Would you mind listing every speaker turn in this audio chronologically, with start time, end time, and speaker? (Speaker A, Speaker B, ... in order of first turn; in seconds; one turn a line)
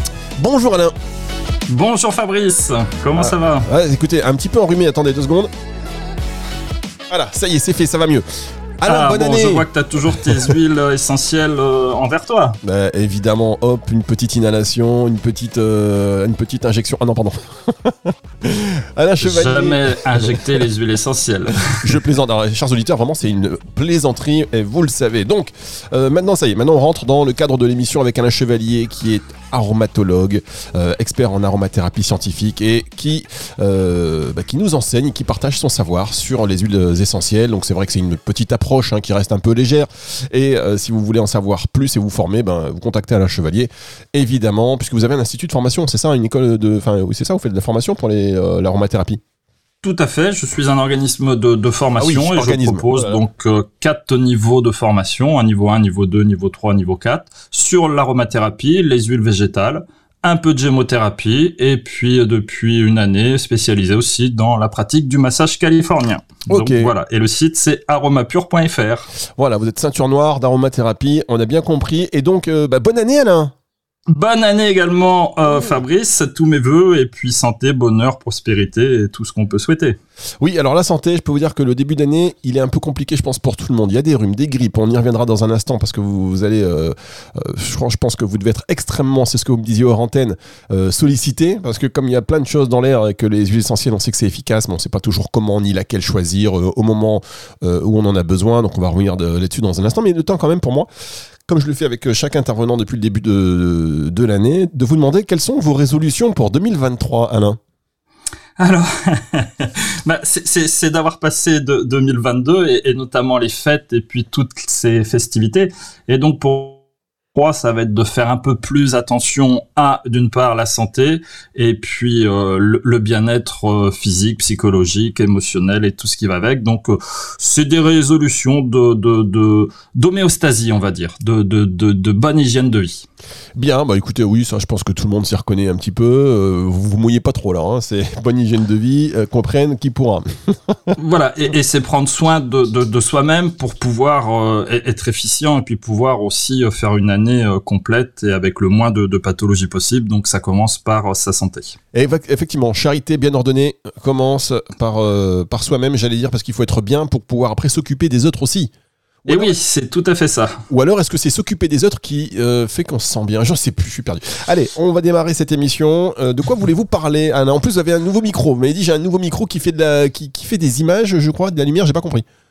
Speaker A: 0.4-0.9
Speaker B: 1.7-3.6
Speaker A: 3.1-5.5
Speaker A: 7.1-8.2
Speaker A: 8.8-10.5
Speaker B: 8.8-12.6
Speaker A: 12.6-20.4
Speaker B: 19.2-22.0
Speaker A: 21.8-49.2
Speaker B: 49.8-69.1
Speaker A: 52.0-53.2
Speaker A: 66.5-66.9
Speaker A: 69.4-73.5
Speaker B: 74.1-80.0
Speaker A: 80.4-100.9
Speaker A: 101.5-107.6
Speaker B: 108.6-116.8
Speaker B: 117.3-133.1
Speaker A: 133.6-140.8
Speaker B: 140.9-151.7
Speaker A: 151.9-158.7
Speaker A: 159.2-159.6
Speaker B: 159.3-160.6
Speaker A: 160.7-172.2